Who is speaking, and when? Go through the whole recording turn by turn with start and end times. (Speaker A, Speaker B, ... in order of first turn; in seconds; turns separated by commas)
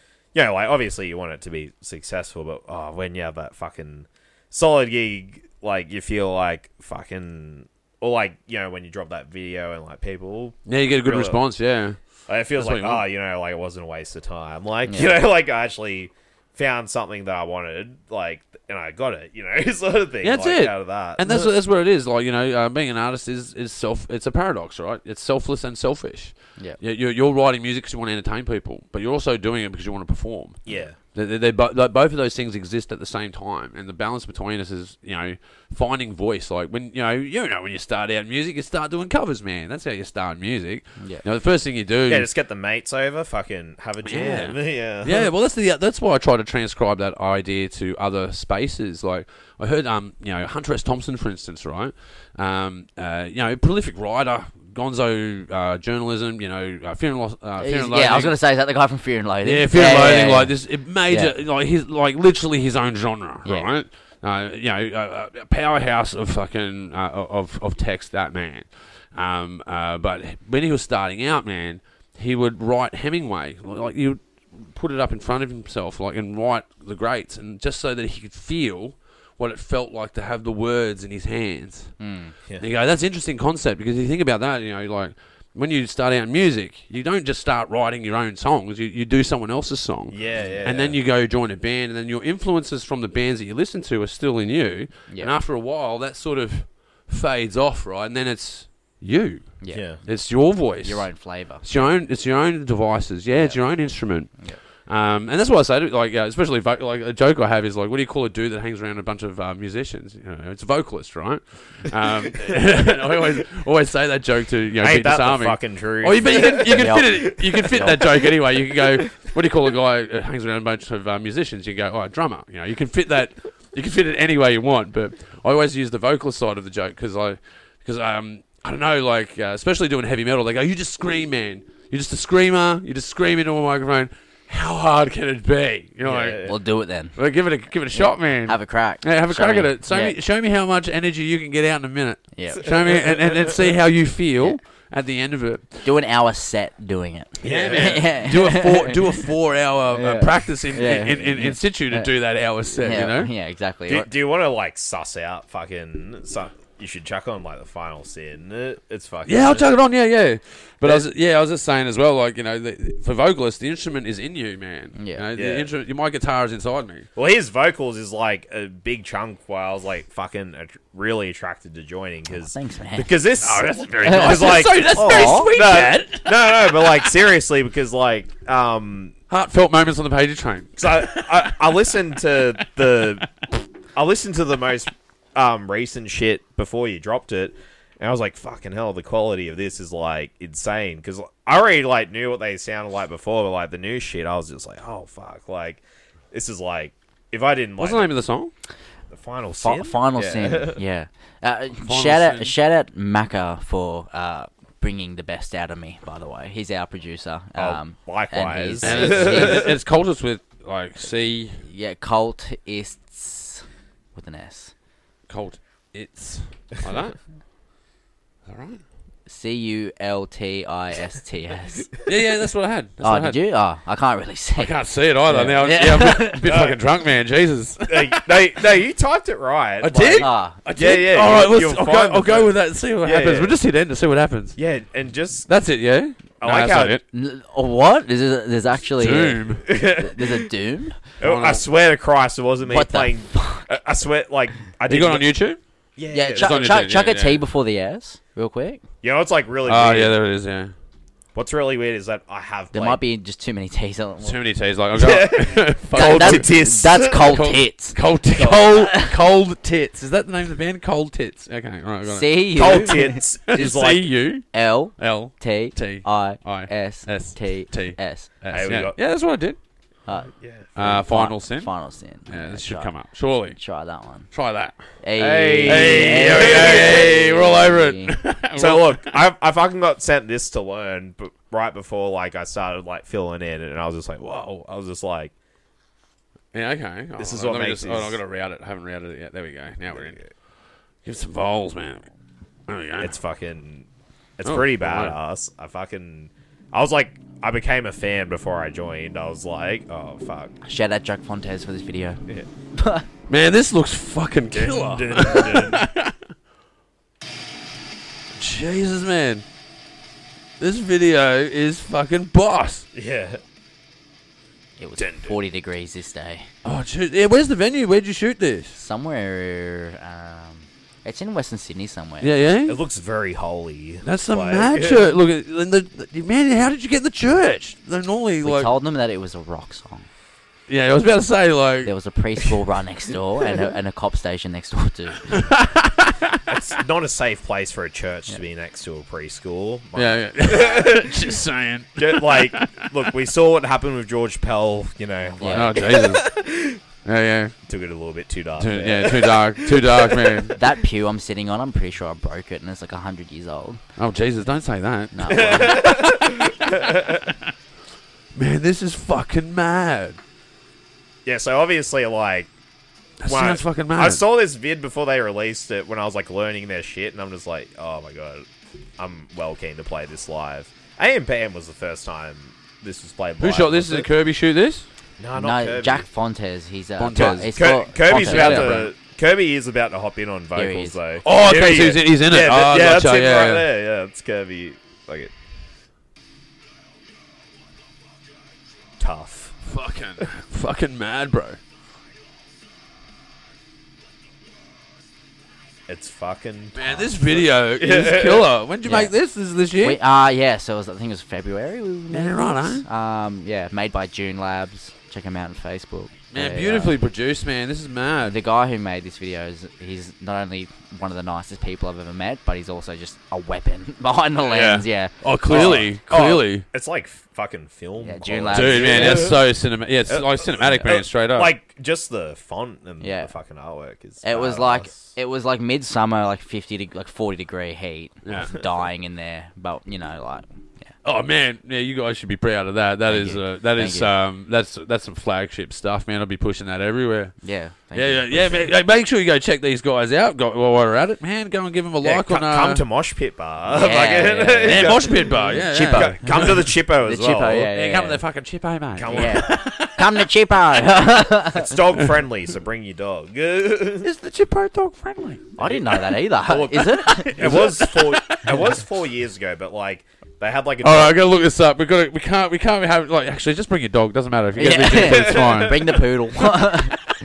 Speaker A: 0.3-11.4, Speaker B: 10.7-12.0, Speaker A: 12.3-21.5, Speaker B: 12.6-13.0, Speaker C: 14.9-15.2, Speaker B: 20.2-30.6, Speaker A: 30.6-31.0, Speaker B: 31.1-42.3, Speaker A: 42.1-45.3, Speaker B: 44.0-58.4, Speaker C: 57.6-61.3, Speaker B: 59.4-81.9, Speaker C: 82.0-82.3, Speaker B: 82.6-101.1, Speaker A: 90.1-91.0, Speaker C: 95.1-95.3, Speaker C: 99.6-100.0, Speaker A: 99.7-100.0, Speaker C: 100.8-101.6, Speaker B: 101.6-136.4, Speaker A: 114.8-119.0, Speaker C: 116.7-118.0, Speaker A: 136.0-136.6, Speaker C: 136.4-137.1, Speaker B: 137.1-145.9, Speaker C: 137.9-140.2, Speaker C: 142.3-142.7, Speaker A: 142.6-143.6, Speaker C: 145.8-149.1, Speaker B: 147.4-153.3, Speaker A: 147.4-148.0, Speaker C: 149.9-152.1, Speaker C: 152.7-154.1, Speaker A: 153.9-159.7, Speaker B: 159.2-167.1, Speaker C: 164.9-165.2, Speaker A: 165.3-165.7, Speaker A: 167.1-179.1, Speaker C: 172.3-173.1, Speaker B: 173.4-177.0, Speaker C: 174.0-175.5, Speaker B: 179.3-181.8, Speaker A: 180.8-198.1, Speaker B: 182.3-182.6, Speaker B: 197.8-198.5, Speaker A: 199.1-200.8, Speaker C: 199.6-209.7, Speaker B: 201.8-202.5, Speaker A: 207.6-209.7, Speaker B: 208.8-211.6, Speaker C: 211.6-214.7, Speaker B: 215.3-217.2, Speaker B: 218.5-218.8, Speaker C: 219.2-221.9, Speaker B: 222.1-223.4, Speaker C: 223.0-224.7, Speaker B: 224.6-228.6, Speaker C: 225.3-226.4, Speaker A: 226.4-226.8, Speaker A: 227.9-233.6, Speaker B: 229.8-234.6, Speaker C: 230.2-230.6, Speaker A: 234.6-235.5, Speaker B: 235.5-237.0, Speaker A: 236.4-237.0, Speaker C: 237.1-241.0, Speaker B: 238.9-239.7, Speaker A: 239.6-240.5, Speaker A: 241.2-245.3, Speaker B: 241.2-241.6, Speaker C: 242.7-243.7, Speaker B: 244.9-245.6, Speaker A: 245.9-246.7, Speaker C: 246.1-248.8, Speaker B: 246.3-247.4, Speaker A: 249.0-250.2, Speaker B: 249.6-250.7, Speaker A: 251.3-253.0, Speaker C: 252.7-254.4, Speaker B: 254.2-269.6, Speaker A: 254.9-257.4, Speaker C: 255.9-259.1, Speaker A: 258.4-258.6, Speaker C: 262.1-263.2, Speaker A: 262.6-264.0, Speaker C: 264.5-268.3, Speaker A: 268.5-269.0, Speaker C: 270.1-272.9, Speaker A: 270.3-270.7, Speaker B: 270.8-271.7, Speaker B: 272.2-273.6, Speaker C: 273.5-274.3, Speaker B: 274.3-274.8, Speaker C: 275.0-278.1, Speaker A: 275.1-277.2, Speaker B: 275.6-279.2, Speaker A: 278.6-285.3, Speaker B: 286.5-290.2, Speaker A: 287.2-288.2, Speaker A: 289.9-290.3, Speaker B: 291.0-292.0, Speaker B: 292.7-293.1, Speaker A: 293.0-293.9, Speaker A: 294.4-300.5, Speaker B: 294.4-295.1, Speaker C: 300.6-302.2, Speaker C: 302.8-303.1, Speaker B: 303.3-306.1, Speaker A: 304.5-305.8, Speaker B: 308.4-309.4, Speaker B: 310.6-312.8, Speaker A: 312.9-313.4, Speaker C: 314.8-316.5, Speaker B: 316.6-318.8, Speaker C: 318.8-322.3, Speaker B: 322.2-322.8, Speaker A: 322.6-325.0, Speaker B: 324.0-328.7, Speaker C: 328.4-330.1, Speaker B: 330.7-331.9, Speaker C: 331.8-335.4, Speaker B: 335.3-336.4, Speaker A: 336.5-341.2, Speaker B: 339.9-342.9, Speaker A: 342.0-346.8, Speaker C: 345.4-345.8, Speaker B: 345.5-346.3, Speaker B: 347.0-347.5, Speaker A: 347.7-350.5, Speaker B: 348.6-350.6, Speaker C: 350.5-353.8, Speaker B: 354.0-357.5, Speaker C: 355.1-355.9, Speaker A: 355.3-357.2, Speaker B: 358.4-360.2, Speaker A: 361.2-362.5, Speaker B: 363.2-364.2, Speaker A: 363.2-368.5, Speaker A: 369.0-374.1, Speaker B: 373.4-374.9, Speaker A: 375.2-376.1, Speaker C: 375.3-378.8, Speaker B: 377.0-378.9, Speaker A: 377.1-385.3, Speaker C: 380.6-381.0, Speaker B: 381.2-383.7, Speaker A: 389.0-389.6, Speaker B: 389.6-391.6, Speaker A: 395.9-398.5, Speaker B: 396.7-400.0, Speaker C: 398.8-399.1, Speaker C: 399.8-406.9, Speaker B: 402.1-402.8, Speaker B: 406.3-408.4, Speaker C: 408.2-415.1, Speaker B: 414.4-416.6, Speaker A: 415.5-419.4, Speaker C: 418.0-419.4, Speaker B: 418.5-421.5, Speaker A: 420.1-425.1, Speaker C: 423.0-423.3, Speaker C: 424.2-430.9, Speaker B: 428.2-428.6, Speaker B: 431.0-437.4, Speaker C: 433.0-434.1, Speaker C: 437.4-438.7, Speaker B: 437.9-442.8, Speaker A: 442.0-447.7, Speaker C: 443.7-448.2, Speaker B: 444.6-446.6, Speaker B: 447.7-450.1, Speaker A: 448.9-449.7, Speaker C: 449.1-451.8, Speaker A: 451.5-454.1, Speaker B: 454.0-458.7, Speaker C: 455.6-457.3, Speaker A: 457.3-461.2, Speaker B: 460.8-466.0, Speaker C: 464.5-467.0, Speaker A: 465.0-465.7